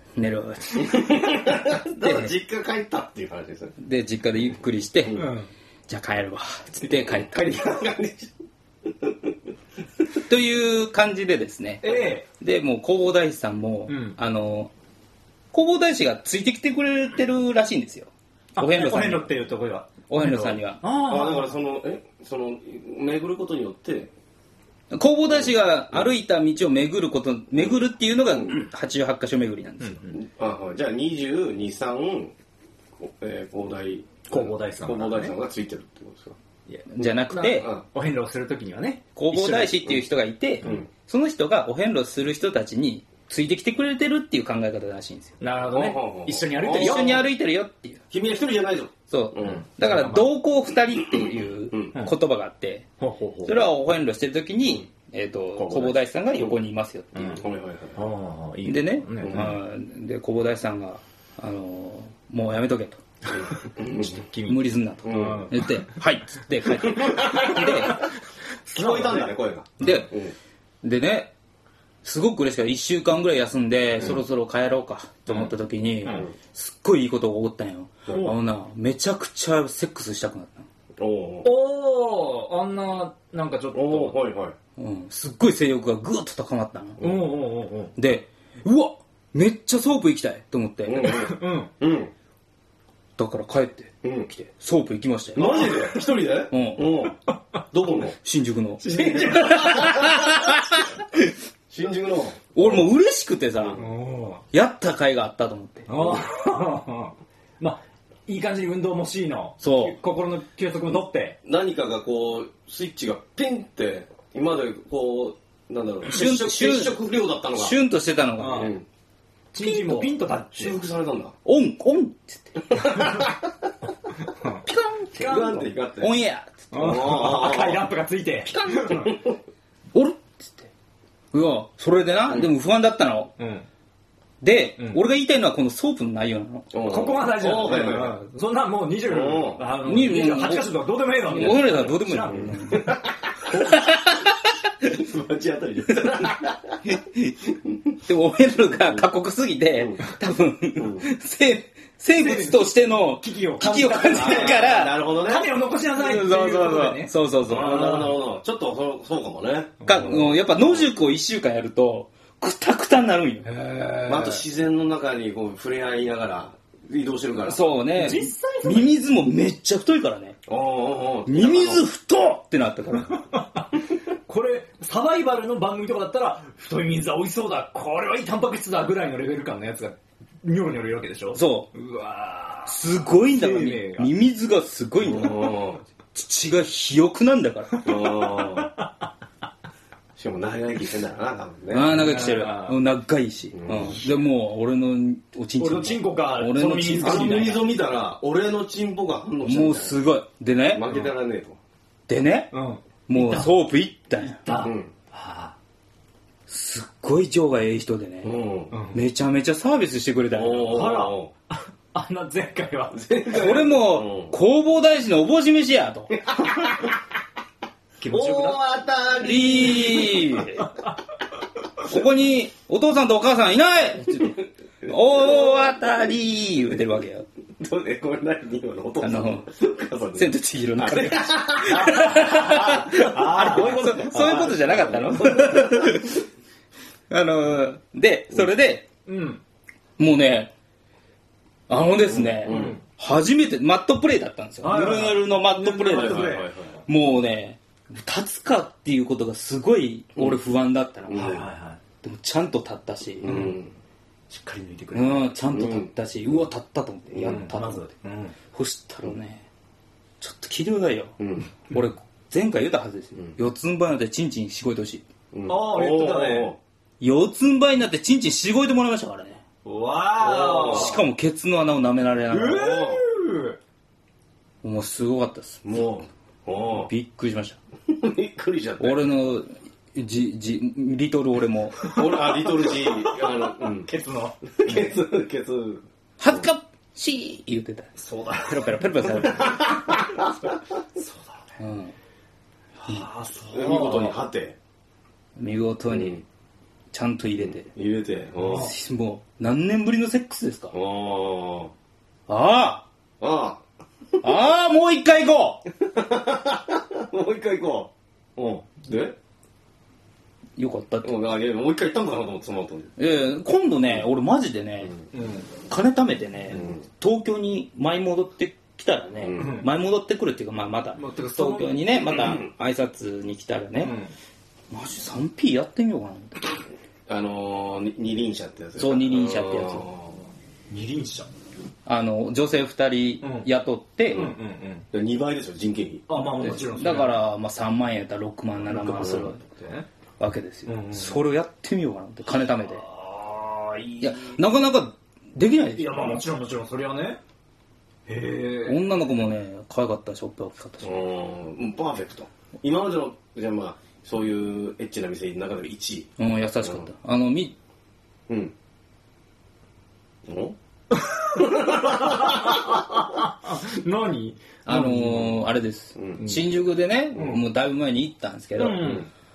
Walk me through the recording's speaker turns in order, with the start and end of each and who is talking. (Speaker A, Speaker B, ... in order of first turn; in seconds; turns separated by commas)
Speaker A: 0.1-2.3, Speaker B: 0.9-3.8, Speaker A: 3.8-5.3, Speaker C: 5.1-5.5, Speaker A: 5.9-7.3, Speaker B: 6.8-8.3, Speaker A: 10.2-14.7, Speaker C: 11.8-12.3, Speaker C: 13.9-14.2, Speaker A: 15.5-19.4, Speaker C: 18.6-21.5, Speaker A: 20.1-20.8, Speaker B: 21.0-24.1, Speaker A: 24.9-30.1, Speaker B: 25.3-26.0, Speaker C: 29.8-30.2, Speaker B: 30.2-32.3, Speaker B: 33.0-36.4, Speaker C: 34.3-35.4, Speaker C: 36.7-39.8, Speaker A: 36.9-37.7, Speaker B: 37.0-37.8, Speaker A: 39.1-45.4, Speaker C: 45.4-47.2, Speaker B: 45.7-47.2, Speaker A: 46.6-48.0, Speaker B: 48.1-49.6, Speaker A: 49.1-52.9, Speaker C: 49.4-50.3, Speaker B: 51.1-51.9, Speaker C: 53.0-53.6, Speaker A: 53.4-57.4, Speaker C: 55.5-56.0, Speaker C: 57.1-57.4, Speaker B: 57.3-58.0, Speaker C: 57.9-59.5, Speaker A: 58.6-63.0, Speaker B: 59.2-59.6, Speaker B: 63.3-64.2, Speaker C: 63.8-65.8, Speaker A: 64.5-68.1, Speaker B: 65.0-65.5, Speaker B: 66.8-67.9, Speaker C: 67.5-68.0, Speaker C: 68.7-70.0, Speaker B: 68.7-70.3, Speaker A: 69.8-70.1, Speaker A: 70.8-71.3, Speaker A: 72.0-80.7, Speaker B: 81.0-81.5, Speaker C: 81.4-84.2, Speaker B: 83.7-84.5, Speaker A: 84.8-87.0, Speaker B: 87.0-87.3, Speaker C: 87.0-87.9, Speaker A: 88.0-91.2, Speaker B: 90.8-92.1, Speaker C: 91.0-91.7, Speaker A: 93.2-95.7, Speaker B: 94.0-94.3, Speaker B: 95.3-97.2, Speaker C: 95.4-95.9, Speaker A: 96.5-97.1, Speaker B: 97.7-98.2, Speaker A: 98.2-100.9, Speaker C: 98.8-100.0, Speaker B: 101.7-102.9, Speaker A: 102.5-103.8, Speaker C: 103.7-104.4, Speaker A: 104.5-105.9, Speaker C: 105.9-111.4, Speaker A: 109.6-110.0, Speaker B: 111.4-117.8, Speaker A: 116.1-117.0, Speaker A: 117.5-118.8, Speaker C: 118.4-118.8, Speaker B: 118.5-118.8, Speaker C: 119.5-120.8, Speaker A: 119.6-120.1, Speaker B: 120.5-121.3, Speaker A: 121.4-123.0, Speaker B: 122.7-123.5, Speaker C: 124.2-125.7, Speaker B: 125.2-126.2, Speaker A: 126.0-127.0, Speaker C: 126.7-129.2, Speaker B: 126.7-127.8, Speaker B: 128.5-129.3, Speaker A: 129.9-130.7, Speaker A: 131.3-133.3, Speaker C: 133.4-133.7, Speaker A: 134.4-136.8, Speaker C: 134.8-135.0, Speaker B: 136.7-138.2, Speaker C: 136.8-142.9, Speaker B: 139.1-139.6, Speaker A: 139.8-140.7, Speaker A: 141.2-143.0, Speaker B: 141.3-143.7, Speaker A: 143.5-144.3, Speaker B: 144.8-146.8, Speaker A: 146.9-147.5, Speaker A: 148.0-155.0, Speaker B: 149.7-150.1, Speaker B: 150.8-151.0, Speaker C: 152.1-158.1, Speaker B: 154.1-155.5, Speaker A: 155.9-158.0, Speaker B: 157.5-160.9, Speaker C: 159.8-160.2, Speaker A: 159.8-163.4, Speaker C: 163.4-164.4, Speaker B: 164.1-167.6, Speaker A: 167.4-170.4, Speaker C: 167.9-168.9, Speaker B: 170.5-171.8, Speaker A: 171.3-173.2, Speaker C: 173.1-184.1, Speaker A: 181.3-181.7, Speaker A: 182.7-187.8, Speaker B: 185.0-185.8, Speaker C: 187.7-188.9, Speaker B: 187.8-188.7, Speaker B: 190.2-192.0, Speaker A: 191.7-197.6, Speaker C: 191.9-192.8, Speaker B: 193.5-194.0, Speaker C: 195.6-197.7, Speaker B: 196.9-200.0, Speaker A: 199.4-200.9, Speaker B: 200.7-201.6, Speaker A: 202.1-202.5, Speaker C: 202.5-203.5, Speaker A: 203.1-204.4, Speaker C: 204.2-205.5, Speaker B: 204.6-204.9, Speaker A: 206.5-208.3, Speaker B: 208.2-208.7, Speaker C: 208.7-209.0, Speaker A: 208.9-211.0, Speaker B: 210.3-211.3, Speaker C: 210.7-213.3, Speaker B: 212.9-214.3, Speaker A: 213.3-216.2, Speaker B: 216.3-217.0, Speaker C: 218.0-218.6, Speaker B: 218.1-220.4, Speaker A: 219.2-220.7, Speaker C: 220.6-220.9, Speaker A: 221.8-227.2, Speaker B: 224.8-225.7, Speaker B: 227.6-236.1, Speaker A: 229.0-229.4, Speaker A: 230.1-236.2, Speaker C: 231.8-234.6, Speaker A: 237.1-238.9, Speaker C: 239.1-239.4, Speaker A: 240.0-240.5, Speaker A: 241.7-251.4, Speaker B: 242.1-242.8, Speaker C: 242.4-242.8, Speaker C: 244.6-246.5, Speaker B: 245.9-246.8, Speaker B: 251.1-251.4, Speaker C: 251.1-251.8, Speaker A: 252.0-253.5, Speaker B: 253.2-253.8, Speaker C: 253.2-253.5, Speaker C: 254.3-255.3, Speaker A: 254.9-257.9, Speaker B: 255.5-255.9, Speaker B: 257.1-257.4, Speaker C: 257.2-258.4, Speaker A: 258.5-259.4, Speaker A: 260.2-265.0, Speaker B: 261.2-261.5, Speaker B: 265.3-266.6, Speaker C: 265.5-266.5, Speaker A: 267.0-269.4, Speaker C: 269.6-271.0, Speaker B: 270.2-271.0, Speaker A: 270.6-272.9, Speaker C: 272.3-273.6, Speaker B: 272.5-273.0, Speaker A: 274.6-275.8, Speaker B: 275.6-276.9, Speaker A: 276.9-277.6, Speaker B: 277.9-279.1, Speaker A: 278.8-282.0, Speaker C: 281.8-282.1, Speaker B: 281.9-283.9, Speaker C: 282.7-284.4, Speaker B: 284.6-286.4, Speaker A: 286.2-289.6, Speaker C: 288.0-289.4, Speaker B: 289.3-290.5, Speaker C: 290.9-291.5, Speaker A: 291.6-291.9, Speaker C: 292.8-294.2, Speaker B: 293.5-294.6, Speaker A: 295.4-296.2, Speaker B: 295.9-296.2, Speaker A: 296.9-297.7, Speaker B: 297.4-298.7, Speaker C: 298.4-298.7, Speaker A: 298.5-300.7, Speaker B: 300.7-301.7, Speaker A: 302.3-302.9, Speaker B: 303.2-303.6, Speaker A: 304.2-305.6, Speaker B: 305.8-309.1, Speaker A: 310.6-311.2, Speaker B: 311.0-312.9, Speaker A: 313.0-314.9, Speaker C: 315.1-315.5, Speaker A: 315.7-324.0, Speaker B: 316.5-316.8, Speaker B: 319.2-319.6, Speaker C: 319.4-319.7, Speaker C: 320.9-321.8, Speaker B: 322.1-322.4, Speaker C: 323.8-324.1, Speaker A: 324.7-326.6, Speaker B: 327.1-330.2, Speaker A: 328.8-329.9, Speaker C: 330.7-331.3, Speaker A: 331.9-334.3, Speaker C: 333.2-333.5, Speaker C: 334.1-334.9, Speaker B: 334.9-336.1, Speaker C: 336.1-337.1, Speaker A: 336.3-339.4, Speaker C: 338.6-339.9, Speaker A: 340.2-342.8, Speaker C: 340.6-341.2, Speaker C: 342.3-344.4, Speaker A: 344.0-346.2, Speaker C: 345.7-347.2, Speaker C: 348.1-348.8, Speaker A: 348.6-351.0, Speaker B: 350.8-356.9, Speaker A: 356.2-357.5, Speaker B: 358.3-358.5, Speaker B: 360.2-360.6, Speaker C: 360.9-365.3, Speaker B: 361.4-362.5, Speaker A: 364.6-369.0, Speaker B: 366.0-366.2, Speaker C: 366.2-366.4, Speaker C: 367.1-367.4, Speaker C: 368.6-369.1